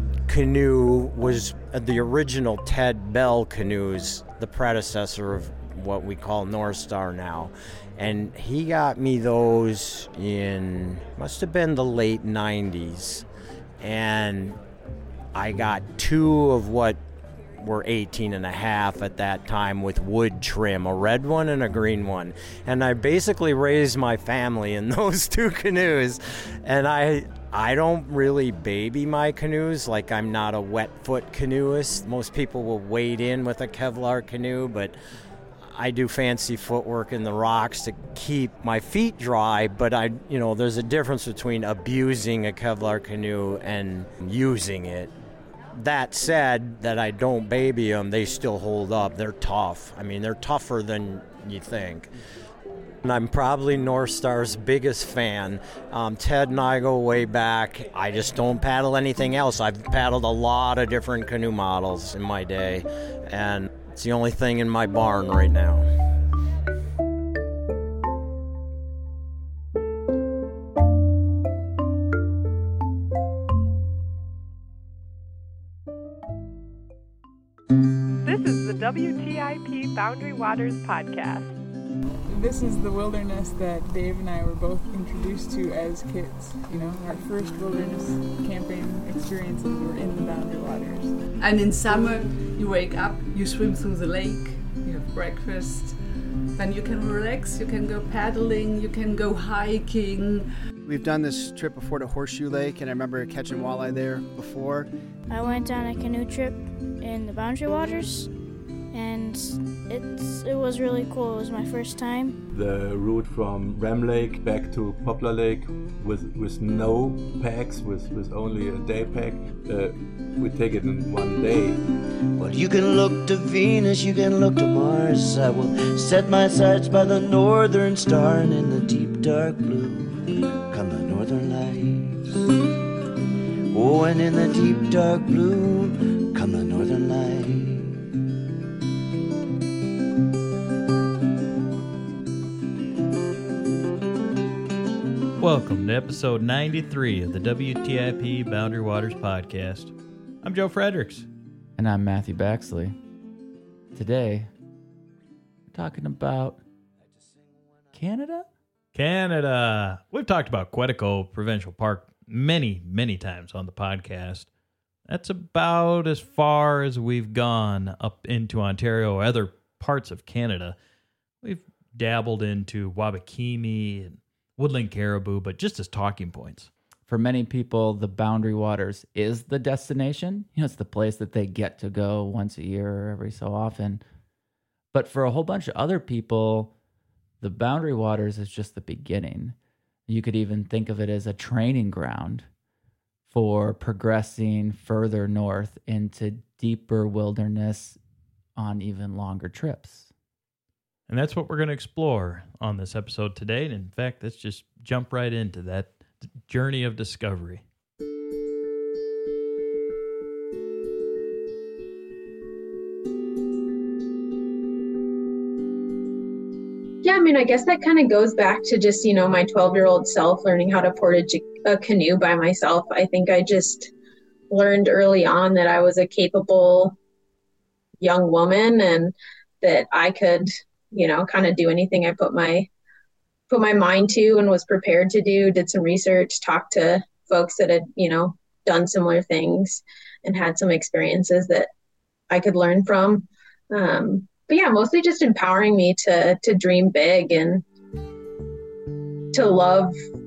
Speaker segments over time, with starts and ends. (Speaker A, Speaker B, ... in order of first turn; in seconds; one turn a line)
Speaker A: 0.3-13.2
Speaker A: 13.8-14.6
Speaker A: 15.3-17.0
Speaker A: 17.6-34.9
Speaker A: 35.7-45.1
Speaker A: 45.8-52.1
Speaker A: 53.0-65.8
Speaker B: 78.2-81.5
Speaker C: 82.3-91.2
Speaker D: 91.4-96.0
Speaker D: 96.5-100.5
Speaker E: 100.8-104.9
Speaker F: 105.3-108.3
Speaker F: 108.9-112.4
Speaker G: 112.5-121.8
Speaker H: 122.4-130.2
Speaker H: 130.7-132.4
Speaker H: 133.7-138.0
Speaker I: 145.4-151.3
Speaker J: 151.8-153.0
Speaker J: 153.9-154.5
Speaker J: 155.7-156.6
Speaker H: 157.0-158.0
Speaker J: 157.9-158.5
Speaker I: 158.9-164.5
Speaker I: 165.1-170.8
Speaker I: 171.4-176.7
Speaker J: 177.1-184.0
Speaker J: 184.9-186.7
Speaker J: 187.4-189.6
Speaker J: 190.1-192.5
Speaker J: 193.3-198.0
Speaker J: 198.6-200.1
Speaker I: 201.1-207.6
Speaker K: 217.0-223.9
Speaker K: 224.5-226.9
Speaker K: 228.0-232.7
Speaker K: 233.5-241.7
Speaker K: 242.3-247.6
Speaker K: 249.3-249.9